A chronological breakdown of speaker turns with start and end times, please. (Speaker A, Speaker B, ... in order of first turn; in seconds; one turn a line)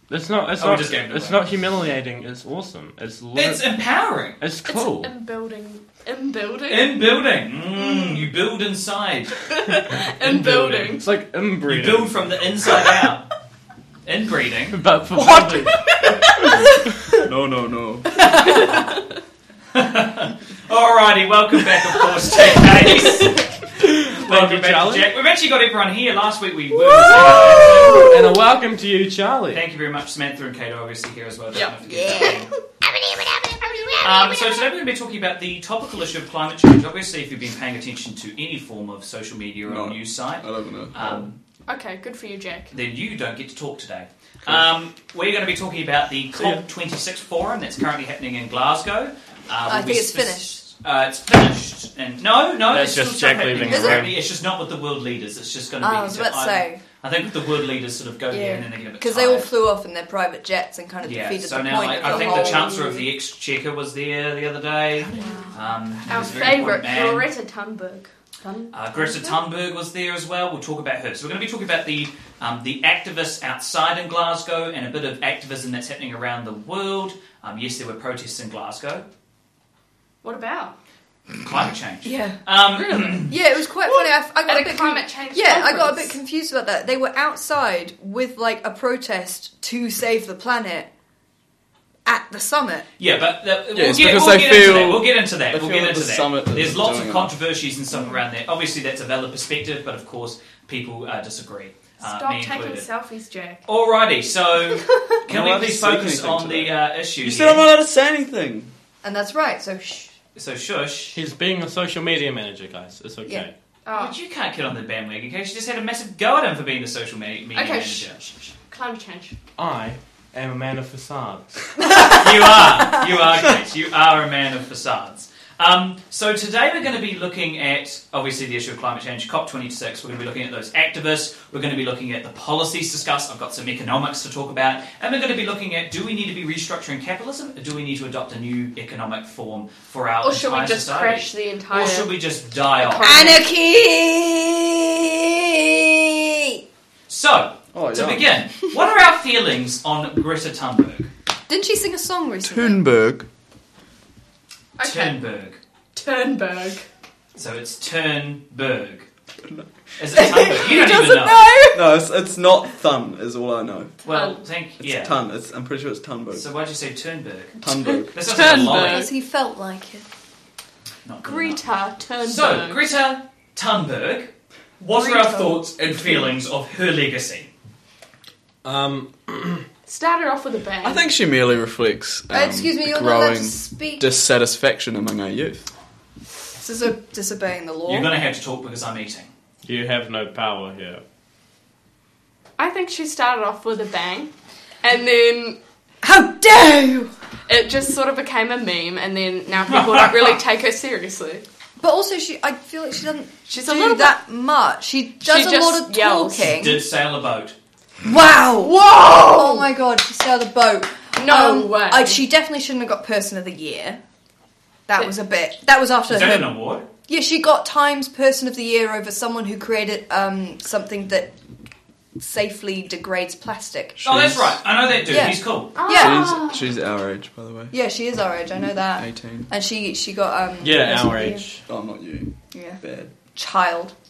Speaker A: 0.1-3.7
Speaker B: 0.6-1.4
Speaker B: 3.4-4.4
Speaker A: 4.4-5.1
Speaker C: 4.7-6.9
Speaker B: 6.7-9.4
Speaker C: 7.8-8.3
Speaker C: 9.5-11.0
Speaker A: 10.2-12.3
Speaker B: 11.7-13.3
Speaker B: 14.1-15.7
Speaker A: 14.7-15.8
Speaker C: 15.9-16.2
Speaker D: 17.2-18.7
Speaker C: 18.6-19.0
Speaker B: 19.7-23.5
Speaker C: 22.6-23.5
Speaker A: 23.8-25.1
Speaker B: 24.1-28.1
Speaker E: 26.9-28.1
Speaker A: 27.9-29.6
Speaker B: 29.5-32.5
Speaker E: 31.9-34.6
Speaker B: 34.0-41.4
Speaker D: 39.7-41.3
Speaker C: 41.7-42.7
Speaker B: 42.7-59.5
Speaker A: 46.4-46.6
Speaker E: 49.7-50.6
Speaker A: 52.7-54.2
Speaker E: 53.7-54.1
Speaker E: 55.8-56.8
Speaker E: 58.3-63.1
Speaker B: 61.0-67.3
Speaker C: 61.9-62.7
Speaker C: 65.1-65.5
Speaker E: 65.2-65.6
Speaker C: 66.1-69.4
Speaker B: 68.7-79.1
Speaker C: 80.2-80.8
Speaker B: 81.4-83.4
Speaker E: 82.0-82.4
Speaker C: 82.7-83.3
Speaker E: 83.3-90.9
Speaker C: 83.9-86.2
Speaker E: 92.0-92.9
Speaker B: 93.0-102.9
Speaker D: 93.7-97.3
Speaker C: 102.0-103.6
Speaker B: 103.7-107.7
Speaker D: 105.3-108.7
Speaker E: 109.0-110.2
Speaker B: 110.3-111.2
Speaker A: 111.1-113.5
Speaker C: 113.9-114.2
Speaker B: 113.9-118.3
Speaker C: 117.5-119.4
Speaker A: 119.6-121.6
Speaker B: 121.8-143.2
Speaker E: 121.8-123.1
Speaker C: 140.2-142.1
Speaker C: 142.8-143.4
Speaker E: 143.0-146.6
Speaker B: 147.1-151.1
Speaker D: 147.7-148.3
Speaker E: 151.5-152.8
Speaker D: 152.4-153.3
Speaker C: 154.8-155.2
Speaker B: 154.8-155.6
Speaker C: 155.9-156.9
Speaker B: 157.4-159.1
Speaker B: 160.0-161.5
Speaker E: 160.1-162.0
Speaker D: 161.7-164.0
Speaker B: 164.1-165.2
Speaker C: 164.1-164.4
Speaker D: 164.8-166.4
Speaker B: 166.3-167.6
Speaker D: 167.6-168.6
Speaker C: 167.9-169.1
Speaker B: 168.1-169.1
Speaker E: 168.7-170.1
Speaker B: 171.1-171.6
Speaker C: 171.2-172.8
Speaker B: 172.2-177.5
Speaker C: 174.9-176.3
Speaker A: 178.7-179.7
Speaker C: 179.9-181.1
Speaker D: 180.8-185.7
Speaker E: 182.3-184.1
Speaker E: 186.6-188.1
Speaker B: 187.9-189.3
Speaker A: 189.6-191.0
Speaker C: 192.6-194.3
Speaker C: 194.8-195.6
Speaker E: 196.0-197.1
Speaker C: 197.5-201.4
Speaker B: 199.7-200.4
Speaker E: 201.8-206.8
Speaker C: 203.5-204.2
Speaker C: 205.2-206.6
Speaker B: 206.5-207.5
Speaker E: 208.0-214.0
Speaker C: 208.6-209.7
Speaker C: 211.2-212.2
Speaker E: 214.9-216.5
Speaker B: 216.1-216.9
Speaker E: 217.1-221.3
Speaker E: 222.2-224.0
Speaker D: 224.0-224.6
Speaker B: 224.0-225.7
Speaker E: 225.1-226.3
Speaker C: 225.8-226.7
Speaker D: 225.9-227.7
Speaker E: 227.7-231.4
Speaker D: 229.0-229.5
Speaker A: 230.6-231.6
Speaker D: 231.7-233.1
Speaker E: 232.5-232.8
Speaker E: 233.3-233.9